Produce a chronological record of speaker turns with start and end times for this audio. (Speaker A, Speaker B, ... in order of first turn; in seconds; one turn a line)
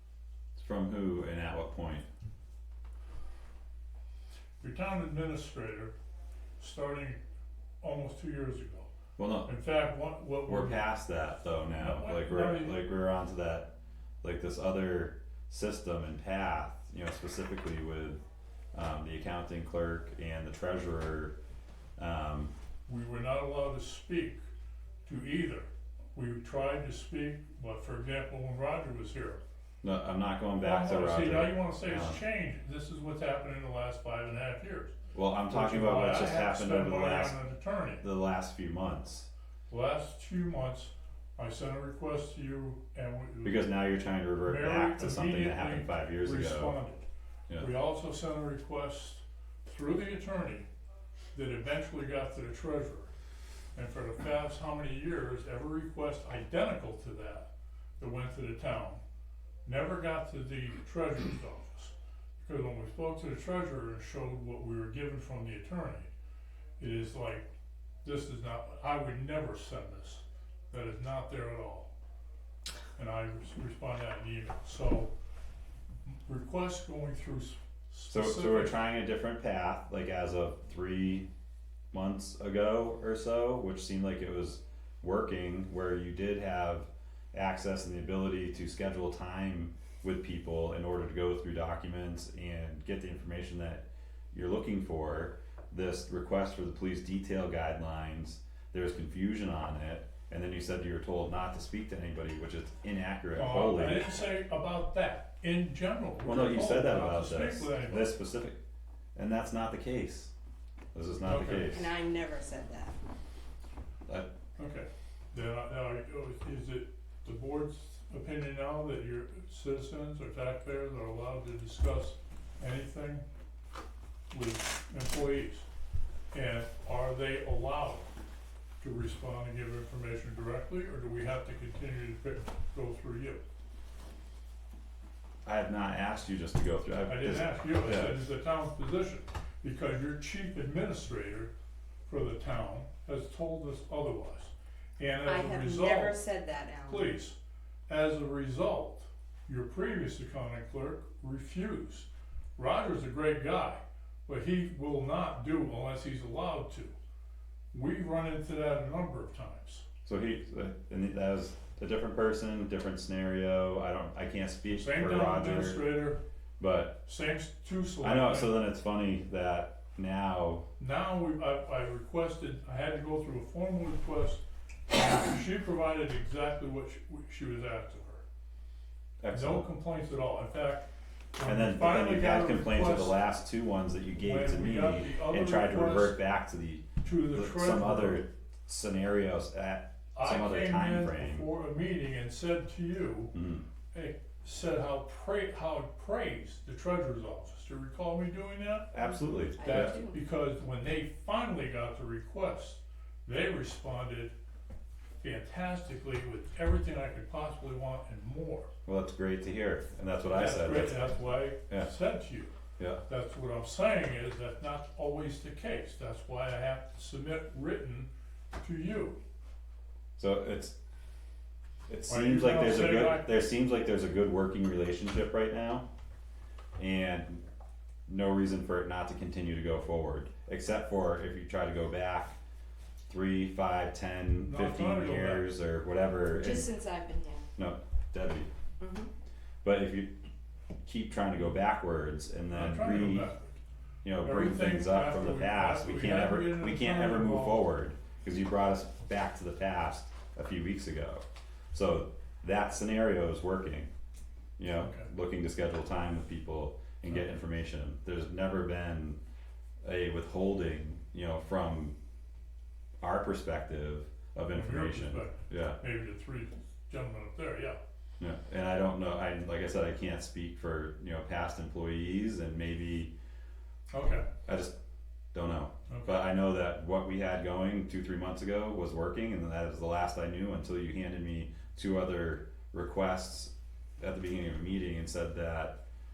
Speaker A: 0.5-2.1
Speaker B: 4.6-5.9
Speaker B: 6.6-7.2
Speaker B: 7.8-8.9
Speaker A: 9.2-9.5
Speaker B: 9.4-10.8
Speaker A: 10.4-13.7
Speaker B: 11.8-12.8
Speaker A: 14.2-18.2
Speaker A: 18.7-21.3
Speaker A: 22.0-22.5
Speaker B: 22.9-24.4
Speaker B: 25.1-29.4
Speaker A: 29.8-32.2
Speaker B: 30.6-34.9
Speaker A: 35.1-37.4
Speaker B: 35.5-38.0
Speaker A: 38.0-39.3
Speaker B: 39.7-43.7
Speaker A: 43.4-46.8
Speaker B: 44.4-47.0
Speaker B: 47.6-50.7
Speaker B: 51.3-53.1
Speaker B: 53.7-59.0
Speaker B: 59.6-66.1
Speaker B: 66.8-67.5
Speaker B: 68.0-71.9
Speaker B: 73.0-75.1
Speaker B: 76.1-78.8
Speaker A: 78.1-81.3
Speaker A: 81.9-104.1
Speaker B: 103.3-108.2
Speaker A: 106.2-108.6
Speaker A: 109.1-110.3
Speaker A: 110.9-111.9
Speaker B: 111.2-111.7
Speaker C: 111.7-113.0
Speaker B: 114.6-123.2
Speaker B: 124.3-125.7
Speaker B: 126.3-128.1
Speaker B: 128.8-133.4
Speaker A: 135.4-138.2
Speaker B: 137.1-141.5
Speaker B: 142.1-146.2
Speaker C: 145.2-147.1
Speaker B: 146.9-147.4
Speaker B: 147.9-156.9
Speaker B: 157.7-159.8
Speaker A: 160.1-166.0
Speaker B: 164.7-166.2
Speaker A: 166.6-167.0
Speaker B: 167.0-168.6
Speaker A: 168.0-170.6
Speaker B: 170.8-178.2
Speaker A: 179.2-179.7
Speaker B: 179.3-180.8
Speaker B: 181.4-183.2
Speaker A: 181.4-191.4
Speaker B: 184.2-186.2
Speaker B: 187.0-188.2
Speaker B: 190.1-193.3
Speaker A: 193.3-193.6
Speaker B: 193.9-198.9
Speaker A: 198.9-199.9
Speaker C: 199.6-200.2
Speaker B: 199.6-204.3
Speaker B: 205.2-208.7
Speaker A: 208.8-211.9
Speaker B: 210.3-212.5
Speaker B: 213.1-219.2
Speaker A: 220.2-220.7
Speaker A: 221.9-225.8
Speaker B: 222.1-223.3
Speaker A: 226.8-227.4
Speaker A: 228.1-232.4
Speaker A: 233.1-236.7
Speaker B: 234.4-235.5
Speaker C: 236.3-237.4
Speaker A: 237.6-238.5
Speaker C: 238.8-239.1
Speaker A: 239.6-240.1
Speaker A: 240.8-243.3
Speaker B: 242.5-243.5
Speaker A: 244.0-253.9
Speaker B: 244.2-247.6
Speaker A: 254.6-259.2
Speaker B: 254.8-255.1
Speaker A: 259.8-261.9
Speaker A: 263.0-265.8
Speaker B: 264.5-267.8
Speaker A: 268.2-273.1
Speaker B: 273.9-274.3
Speaker A: 274.4-274.7
Speaker A: 275.3-285.8
Speaker B: 275.9-276.1